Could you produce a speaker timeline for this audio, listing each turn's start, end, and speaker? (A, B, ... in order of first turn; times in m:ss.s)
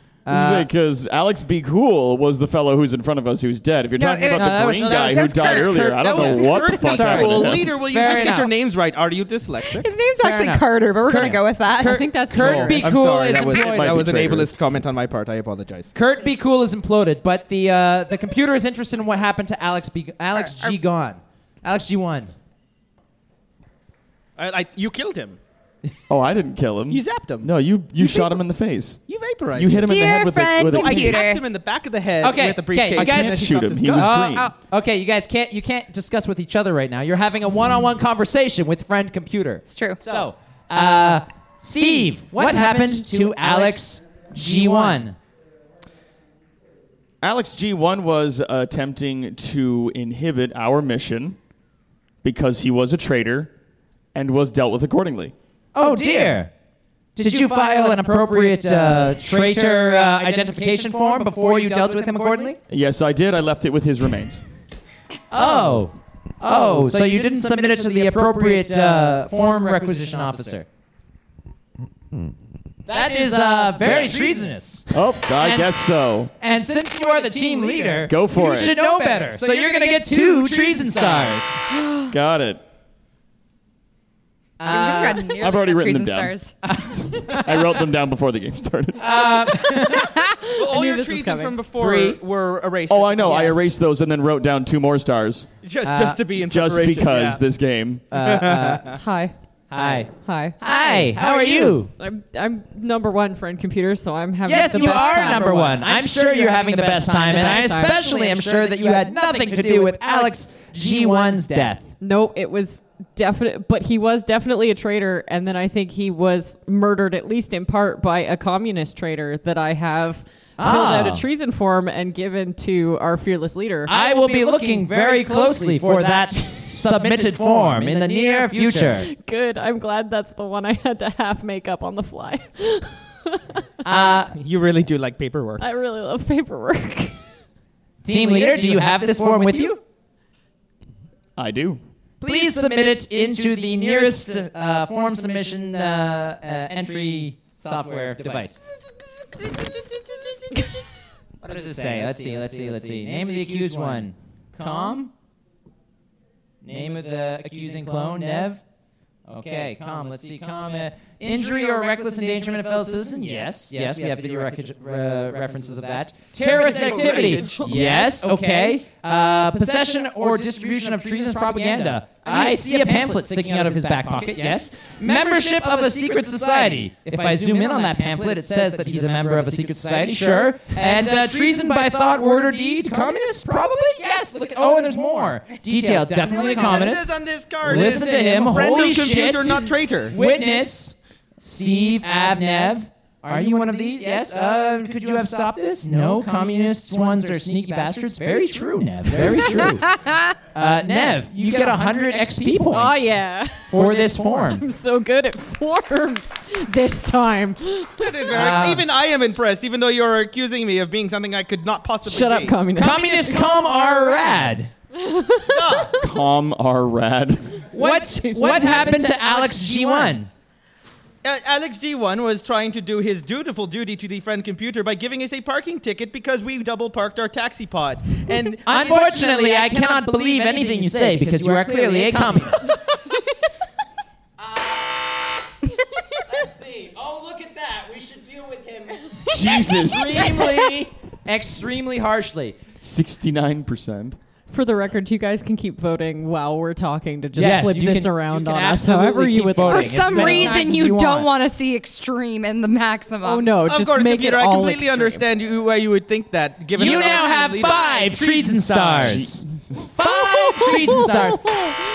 0:00.2-0:00.7 A
0:00.3-0:07.7 B
0:03.9-0:07.0 C
0:04.3-0:05.2 A
0:04.8-0:09.9 D
0:06.7-0:08.5 A
0:09.7-0:12.1 C
0:10.2-0:14.0 A
0:11.8-0:12.9 E
0:12.4-0:15.9 D
0:13.3-0:14.5 B
0:15.9-0:22.3 A
0:20.3-0:20.7 C
0:24.4-0:25.4 D
0:26.1-0:29.0 B
0:26.9-0:27.5 D
0:29.1-0:29.9 D
0:29.5-0:31.2 B
0:29.8-0:31.4 C
0:30.7-0:34.2 D
0:32.2-0:45.2 A
0:33.0-0:34.5 B
0:39.7-0:40.0 C
0:47.2-0:51.4 B
0:52.2-0:53.5 B
0:54.1-0:55.3 B
0:55.7-0:56.5 A
0:57.2-1:02.6 A
1:02.7-1:04.4 B
1:05.3-1:10.6 A
1:12.8-1:15.7 A
1:14.9-1:16.3 B
1:16.4-1:21.7 A
1:18.0-1:18.7 B
1:22.1-1:22.6 B
1:24.6-1:25.4 A
1:24.6-1:26.5 C
1:25.3-1:26.3 B
1:26.6-1:27.6 A
1:27.0-1:29.5 B
1:29.0-1:30.2 A
1:30.1-1:31.6 E
1:30.5-1:33.6 D
1:31.8-1:32.2 A
1:32.9-1:35.5 B
1:35.6-1:37.4 D
1:35.8-1:36.2 A
1:36.4-1:38.0 B
1:38.1-1:38.9 A
1:38.2-1:39.0 D
1:39.0-1:39.3 E
1:39.7-1:41.9 A
1:40.2-1:40.6 E
1:42.0-1:45.8 E
1:44.4-1:51.9 A
1:47.4-1:48.2 E
1:52.0-2:03.9 E
2:00.6-2:01.2 A
2:03.8-2:09.1 A
2:09.0-2:13.6 E
2:13.8-2:14.4 A
2:14.3-2:15.6 D
2:15.6-2:17.2 E
2:18.0-2:19.8 A
2:21.4-2:21.8 B
2:22.2-2:28.6 A
2:31.4-2:35.1 A
2:36.6-2:38.6 A
2:39.3-3:20.0 A
2:46.4-2:47.7 D
3:06.2-3:10.2 D
3:20.5-3:23.2 A
3:22.7-3:28.5 E
3:23.7-3:24.6 A
3:28.0-3:32.6 D
3:28.3-3:28.8 A
3:32.0-3:33.4 E
3:32.7-3:34.7 A
3:34.9-3:36.0 E
3:35.5-3:36.0 D
3:35.9-3:37.6 B
3:37.7-3:40.3 A
3:37.8-3:39.1 E
3:41.2-3:49.2 D
3:48.6-3:52.7 A
3:54.4-3:55.0 A
3:56.2-4:02.6 A
3:59.2-4:00.4 B
4:02.8-4:04.2 B
4:04.5-4:10.7 E
4:07.4-4:11.3 A
4:09.6-4:13.5 C
4:13.2-4:15.2 E
4:13.6-4:19.3 D
4:16.7-4:21.6 A
4:19.0-4:19.9 B
4:20.0-4:21.7 E